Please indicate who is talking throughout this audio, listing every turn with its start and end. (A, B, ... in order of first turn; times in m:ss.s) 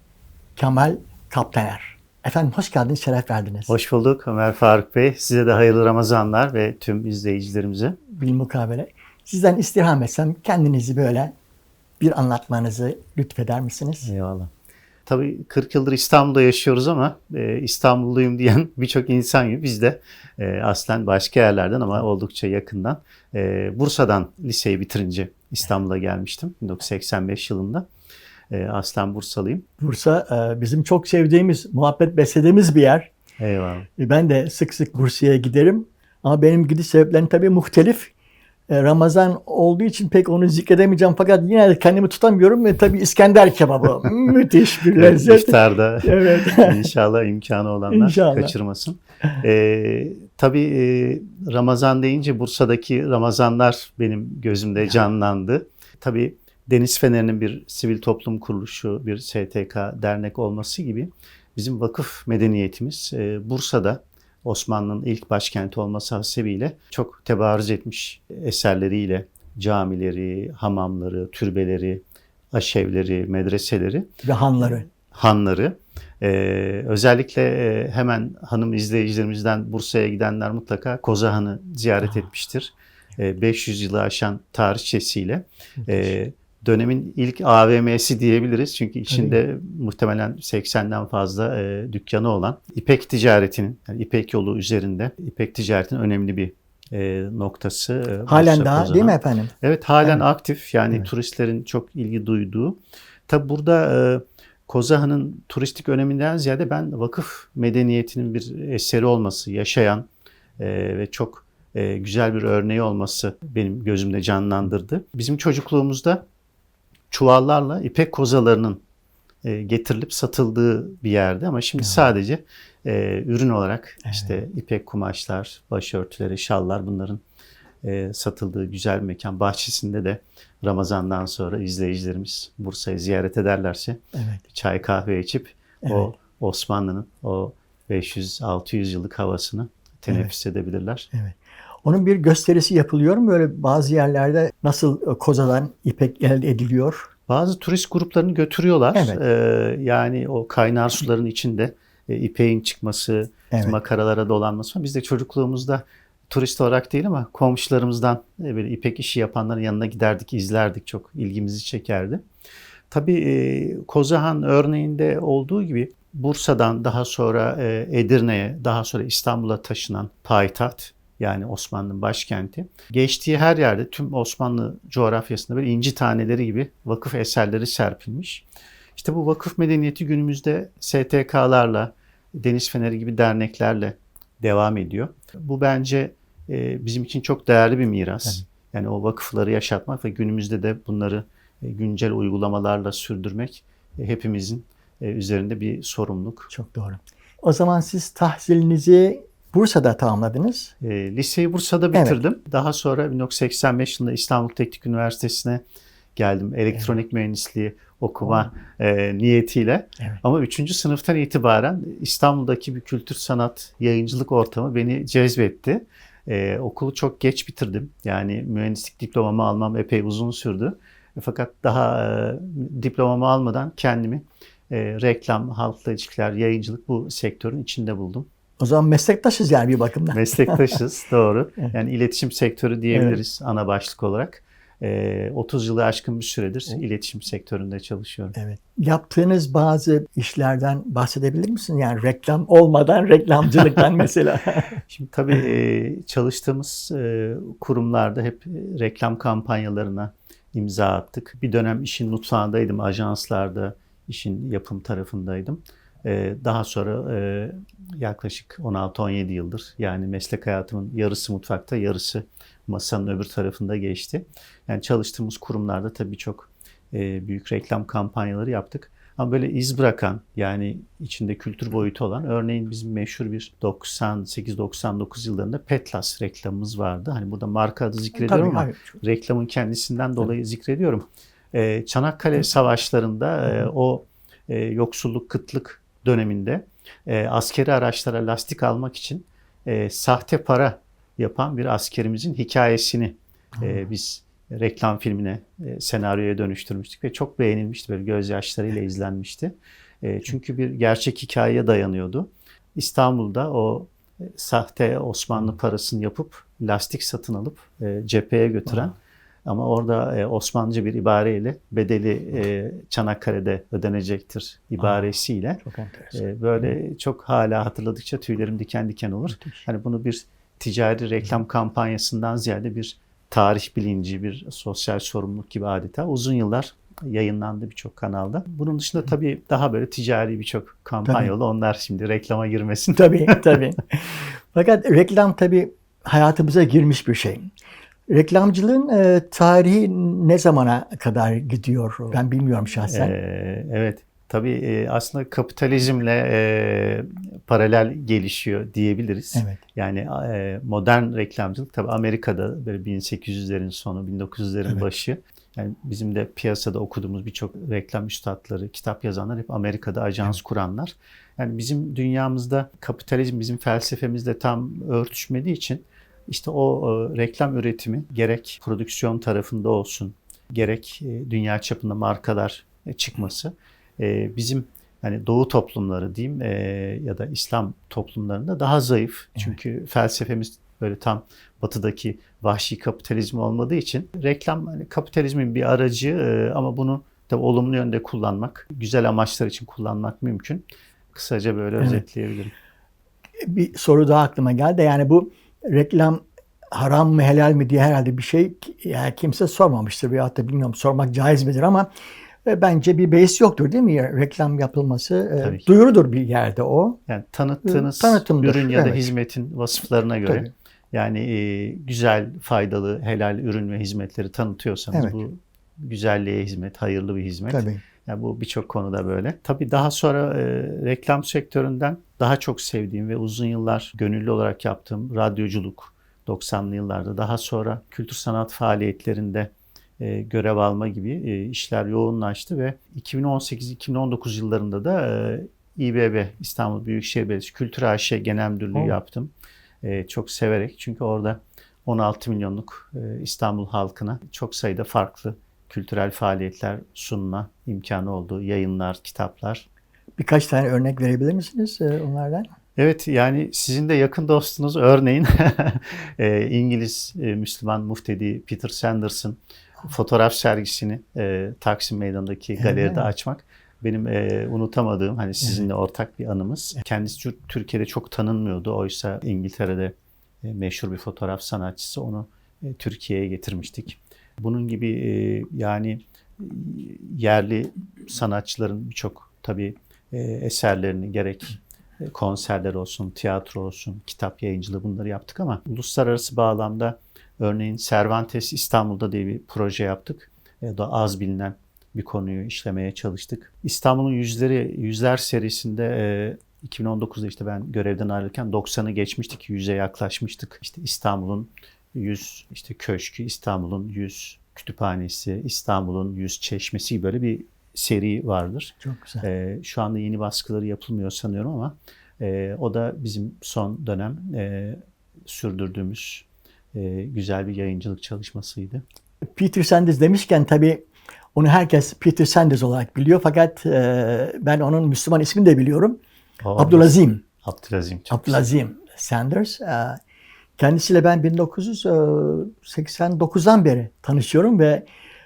0:00.6-0:03.7 A
0:03.7-0:08.0 B
0:08.1-0:11.3 A
0:12.0-0:14.1 A
0:14.0-0:14.5 B
0:15.0-0:27.8 B
0:28.5-0:29.6 B
0:29.8-0:33.1 A
0:33.4-0:33.9 B
0:34.0-0:38.1 A
0:38.7-0:46.9 A
0:44.9-1:50.0 B
0:47.9-0:48.5 A
1:14.2-1:14.9 A
1:29.1-1:29.4 A
1:38.3-1:39.5 A
1:50.6-1:56.2 B
1:57.1-1:58.8 B
1:59.4-2:07.2 B
2:04.0-2:04.4 A
2:07.8-2:14.0 B
2:14.1-2:14.4 A
2:14.5-2:21.1 B
2:15.8-2:16.2 A
2:21.1-2:27.1 A
2:27.3-2:42.2 B
2:28.9-2:29.2 A
2:33.5-2:33.8 A
2:42.9-2:58.4 B
2:59.0-3:16.5 B
3:16.5-3:20.7 A
3:20.8-3:25.6 B
3:21.9-3:22.2 A
3:26.2-3:48.3 B
3:48.6-3:50.8 A
3:50.1-3:58.3 B
3:52.9-3:53.2 A
3:58.3-4:04.8 A
4:04.9-5:15.6 B
4:38.1-4:39.0 A
5:15.6-5:16.2 A
5:16.1-5:33.6 B
5:19.3-5:19.6 A
5:31.0-5:31.3 A
5:32.9-5:37.5 A
5:38.1-5:43.1 A
5:42.9-6:32.5 B
5:49.3-5:49.6 A
6:33.4-6:41.9 A
6:42.4-6:47.0 A
6:45.4-6:45.7 B
6:47.1-7:29.6 B
6:47.6-6:49.1 A
6:50.2-6:50.5 A
6:54.9-6:55.2 A
6:57.5-6:57.8 A
7:30.2-7:32.5 A
7:32.8-8:38.8 B
7:42.6-7:43.1 A
8:28.8-8:29.2 A
8:39.4-8:40.8 A
8:41.3-8:46.0 A
8:46.4-8:48.4 B
8:46.6-8:47.2 A
8:48.1-8:50.0 A
8:50.6-8:54.8 A